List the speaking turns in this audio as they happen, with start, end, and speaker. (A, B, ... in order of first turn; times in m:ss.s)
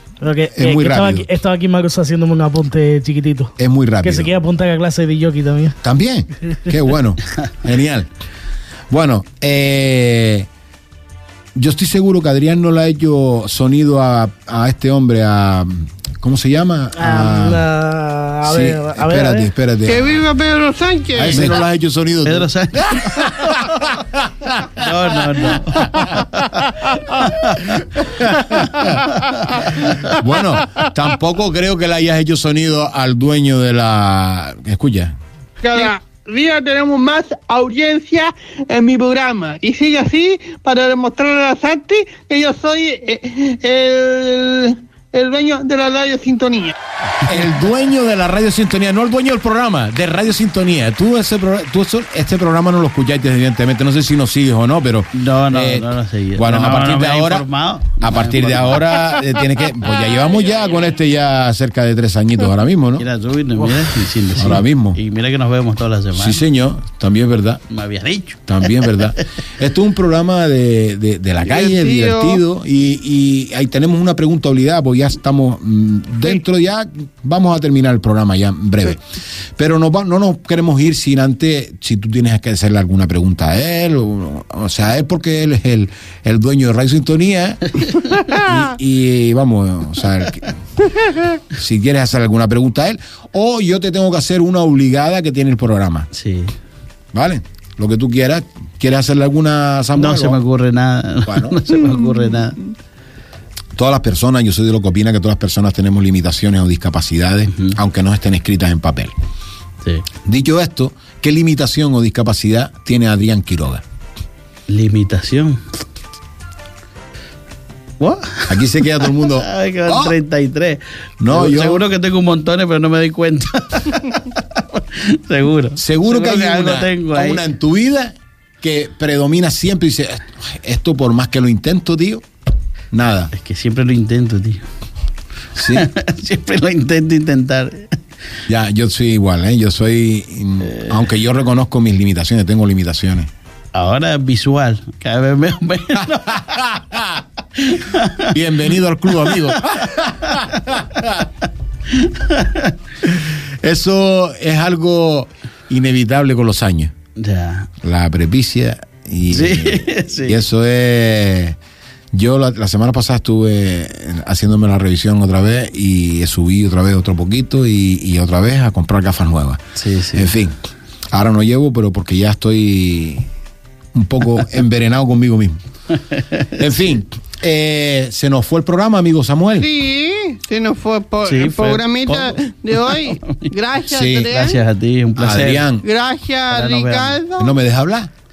0:00.2-0:05.8 A
0:00.6-0:01.3 B
0:03.6-0:04.3 B
0:05.8-0:08.1 B
0:08.9-0:10.5 B
0:11.6-0:17.6 B
0:17.0-0:19.5 A
0:18.4-0:20.2 B
0:19.8-0:21.5 C
0:21.2-0:26.2 B
0:21.3-0:21.6 D
0:22.2-0:23.8 D
0:24.7-0:27.7 D
0:28.2-0:29.0 B
0:28.5-0:30.9 C
0:28.7-0:30.0 D
0:29.8-0:35.2 B
0:35.6-0:46.8 C
0:47.2-0:57.5 B
0:55.1-0:59.1 D
0:58.0-1:03.1 B
0:59.9-1:00.7 C
1:03.0-1:06.4 D
1:04.4-1:05.0 B
1:06.2-1:07.6 B
1:07.7-1:09.1 D
1:08.5-1:19.0 B
1:11.4-1:12.4 C
1:19.6-1:30.5 B
1:31.5-1:36.1 B
1:36.1-1:36.6 D
1:37.1-1:40.4 B
1:40.0-1:42.6 D
1:41.2-1:41.7 B
1:43.8-1:49.1 B
1:50.2-1:53.8 B
1:54.7-1:55.6 D
1:58.0-2:07.4 D
1:58.5-2:00.2 B
2:01.2-2:01.9 B
2:05.8-2:12.2 B
2:12.9-2:13.3 B
2:13.3-2:14.6 D
2:15.6-2:15.9 B
2:15.6-2:18.0 D
2:18.5-2:23.3 B
2:20.6-2:21.0 D
2:23.7-2:26.6 D
2:26.0-2:27.2 B
2:27.6-2:28.4 D
2:28.2-2:31.2 B
2:29.2-2:31.1 D
2:31.9-2:32.8 D
2:33.1-2:36.9 B
2:37.2-2:37.7 D
2:37.8-2:41.6 B
2:39.3-2:40.4 D
2:42.1-2:49.6 B
2:49.8-2:50.3 D
2:50.1-2:50.6 B
2:51.1-2:53.3 B
2:53.9-2:55.6 B
2:55.9-2:56.7 D
2:56.6-2:59.7 B
2:59.6-3:04.6 C
3:01.2-3:03.5 D
3:03.9-3:04.4 B
3:04.3-3:05.7 D
3:05.2-3:05.9 B
3:05.8-3:07.5 C
3:06.5-3:07.2 D
3:07.4-3:08.1 B